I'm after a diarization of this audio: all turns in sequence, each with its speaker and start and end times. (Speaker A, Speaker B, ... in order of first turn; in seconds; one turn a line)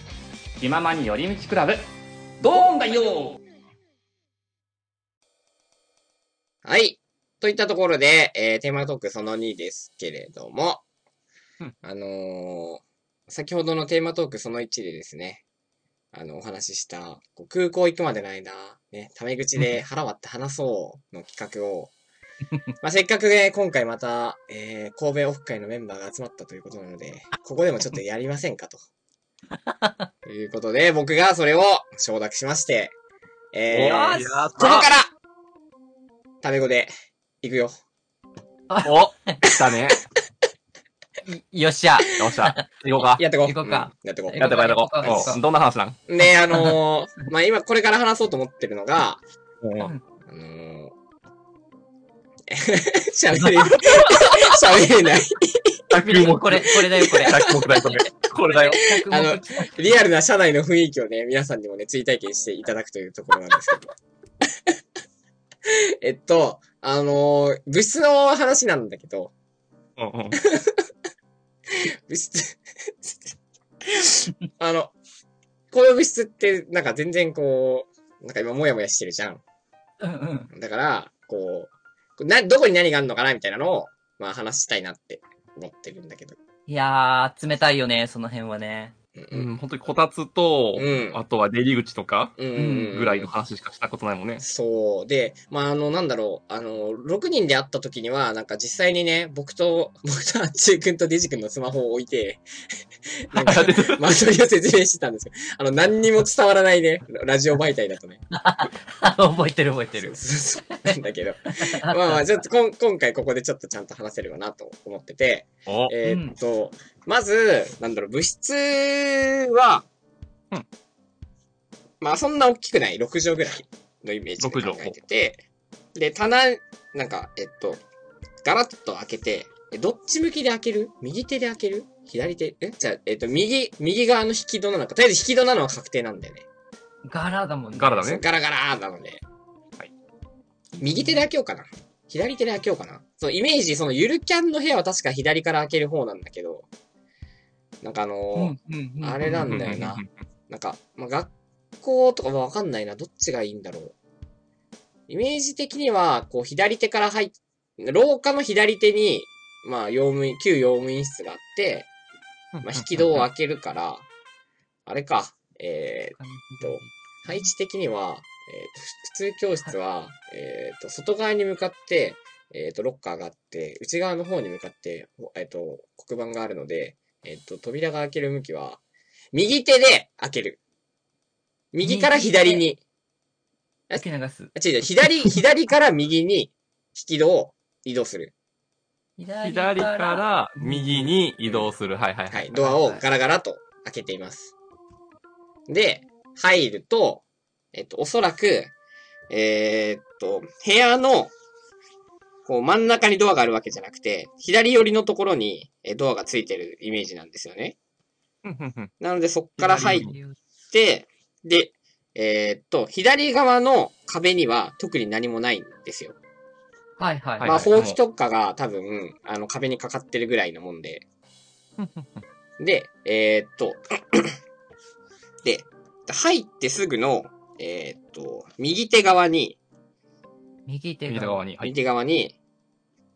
Speaker A: 0.6-1.8
Speaker A: 2.4-3.4
Speaker B: 6.6-10.8
Speaker B: 11.8-15.4
Speaker B: 16.1-21.9
Speaker B: 22.8-28.8
Speaker B: 30.2-32.9
Speaker B: 33.5-35.1
Speaker C: 33.7-34.9
Speaker D: 33.8-34.5
Speaker B: 36.4-36.9
Speaker B: 37.4-37.7
Speaker D: 38.7-39.4
Speaker C: 38.8-40.0
Speaker B: 39.5-39.9
Speaker D: 41.2-42.6
Speaker C: 42.1-43.2
Speaker B: 43.1-45.4
Speaker D: 43.4-45.4
Speaker C: 44.4-46.0
Speaker B: 46.1-49.2
Speaker D: 46.5-46.8
Speaker C: 49.6-49.9
Speaker B: 50.3-50.9
Speaker B: 52.5-55.8
Speaker C: 55.9-58.8
Speaker D: 56.0-57.4
Speaker B: 57.2-58.0
Speaker D: 58.5-60.0
Speaker B: 59.0-63.9
Speaker B: 65.7-69.3
Speaker C: 70.0-70.4
Speaker B: 70.3-70.8
Speaker B: 72.1-73.3
Speaker B: 73.9-74.9
Speaker B: 75.7-79.4
Speaker D: 80.0-80.5
Speaker B: 80.5-86.4
Speaker D: 86.7-88.9
Speaker B: 89.2-89.5
Speaker C: 89.3-92.3
Speaker B: 90.7-91.2
Speaker B: 92.4-93.3
Speaker D: 92.5-92.9
Speaker C: 92.9-94.4
Speaker B: 94.4-102.4
Speaker B: 103.3-108.2
Speaker C: 103.3-104.0
Speaker D: 108.3-110.2
Speaker B: 109.9-119.8
Speaker D: 110.7-111.9
Speaker C: 115.7-115.9
Speaker D: 116.0-116.3
Speaker B: 122.0-125.4
Speaker C: 124.4-124.9
Speaker B: 126.0-127.8
Speaker B: 128.4-136.4
Speaker D: 137.0-138.2
Speaker C: 137.7-138.2
Speaker B: 138.0-139.2
Speaker D: 140.8-141.2
Speaker B: 140.8-146.7
Speaker B: 147.8-153.9
Speaker D: 148.3-149.7
Speaker C: 149.2-150.1
Speaker B: 155.1-161.9
Speaker C: 162.5-163.3
Speaker B: 162.6-164.1
Speaker B: 164.8-178.8
Speaker D: 166.1-167.5
Speaker B: 179.3-180.6
Speaker B: 181.7-182.8
Speaker D: 181.8-182.7
Speaker B: 183.9-188.3
Speaker D: 183.9-184.5
Speaker D: 189.2-191.1
Speaker C: 189.4-192.5
Speaker B: 191.4-191.7
Speaker B: 192.3-194.5
Speaker D: 192.5-193.0
Speaker B: 195.7-198.7
Speaker B: 199.3-201.3
Speaker B: 202.4-207.8
Speaker C: 208.4-208.9
Speaker B: 209.0-210.1
Speaker C: 209.6-210.1
Speaker D: 209.7-210.4
Speaker B: 210.7-216.2
Speaker D: 217.0-217.6
Speaker C: 217.4-218.0
Speaker B: 217.4-221.1
Speaker C: 221.8-222.2
Speaker B: 222.6-224.3
Speaker B: 225.4-229.6
Speaker D: 230.7-231.4
Speaker C: 231.1-231.7
Speaker B: 231.6-232.3